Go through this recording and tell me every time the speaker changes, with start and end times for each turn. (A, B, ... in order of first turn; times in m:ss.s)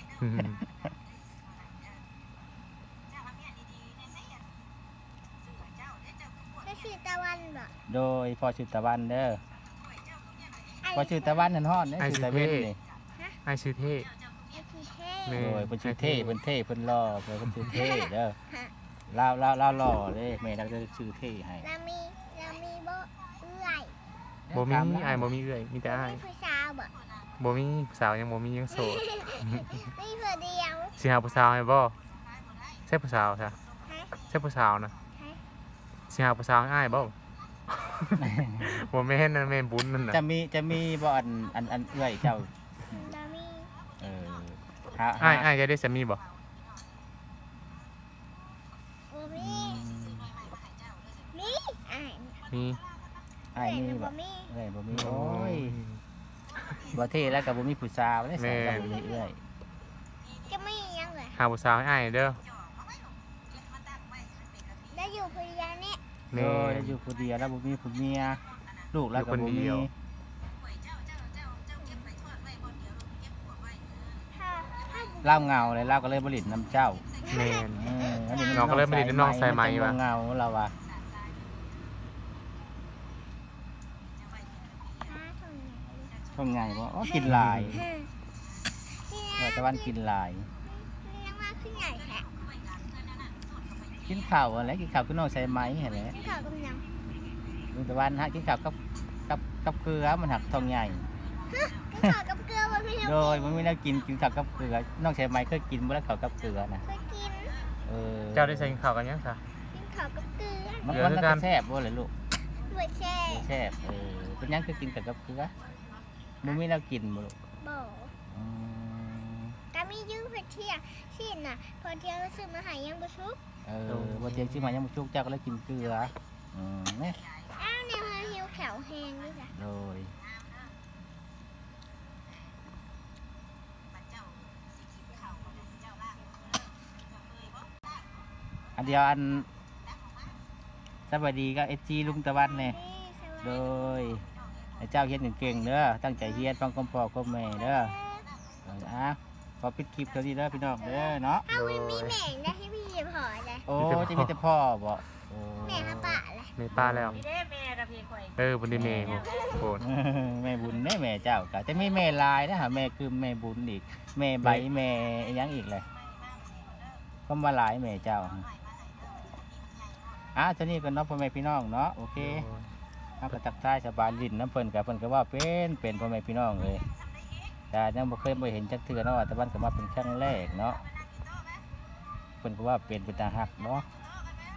0:00.2-0:00.6 A
0:06.6-0:07.7 B
0:07.9-0:09.4 C
0:10.8-0:11.6 B
0:10.9-0:12.8 C
0:12.0-0:12.7 A
0:13.4-0:14.1 A
0:14.5-0:15.4 B
0:15.3-0:16.4 A
0:15.4-0:18.4 C
0:17.7-0:18.7 B
0:19.1-0:21.7 C
0:21.6-0:24.0 B
0:24.5-0:25.3 C
0:24.5-0:26.2 A
0:25.8-0:26.9 B
0:27.4-0:29.8 A
0:28.7-0:31.0 B
0:31.0-0:32.0 A
0:32.9-0:33.6 A
0:33.9-0:34.1 B
0:34.3-0:34.9 A
0:35.2-0:35.4 B
0:36.1-0:37.2 A
0:37.8-0:40.2 A
0:38.2-0:38.7 C
0:40.1-0:43.0 C
0:42.9-0:43.8 B
0:44.0-0:45.5 C
0:45.2-0:46.2 A
0:49.1-0:49.9 B
0:49.4-0:50.4 C
0:51.3-0:52.4 B
0:52.5-0:52.8 A
0:53.6-0:55.8 C
0:53.6-0:54.5 B
0:54.9-0:56.0 A
0:56.9-0:59.4 C
0:58.4-0:59.0 A
0:58.7-0:59.3 B
1:00.5-1:01.4 B
1:01.4-1:02.4 A
1:04.9-1:06.0 B
1:06.3-1:07.0 A
1:06.3-1:09.9 C
1:09.2-1:09.9 A
1:11.8-1:12.1 B
1:14.3-1:15.7 B
1:15.2-1:17.1 C
1:17.2-1:18.7 B
1:17.3-1:17.8 A
1:17.7-1:20.8 C
1:18.5-1:20.0 A
1:25.0-1:26.2 B
1:26.3-1:27.8 C
1:27.0-1:28.1 B
1:27.3-1:27.8 A
1:29.0-1:29.9 B
1:29.4-1:30.5 C
1:30.6-1:32.3 B
1:34.0-1:36.2 C
1:36.1-1:36.8 B
1:37.7-1:38.8 C
1:39.3-1:41.1 C
1:41.5-1:43.8 B
1:43.0-1:46.9 C
1:46.8-1:47.6 B
1:47.8-1:48.8 C
1:48.3-1:49.4 A
1:49.7-1:51.0 B
1:50.9-1:51.5 A
1:50.9-1:52.1 C
1:52.4-1:53.5 B
1:53.3-1:55.5 C
1:56.4-1:57.4 C
1:57.6-1:58.1 B
1:58.3-1:59.6 C
1:59.7-2:03.4 B
2:03.6-2:07.2 C
2:03.9-2:04.8 A
2:07.5-2:09.6 B
2:09.5-2:10.1 C
2:18.8-2:19.5 C
2:21.1-2:22.8 C
2:22.4-2:24.1 B
2:23.4-2:24.3 C
2:24.8-2:28.0 C
2:27.6-2:28.3 B
2:28.6-2:31.5 C
2:30.8-2:33.7 B
2:31.5-2:32.3 A
2:33.7-2:36.1 C
2:33.8-2:34.4 A
2:35.6-2:36.6 B
2:35.7-2:37.2 A
2:36.7-2:37.2 C
2:37.1-2:38.4 D
2:38.4-2:39.8 A
2:38.7-2:39.2 C
2:39.1-2:39.8 D
2:39.8-2:45.9 C
2:47.3-2:48.5 C
2:50.4-2:52.4 C
2:52.2-2:52.7 A
2:53.2-2:56.9 C
2:57.7-3:00.9 C
3:02.4-3:03.9 C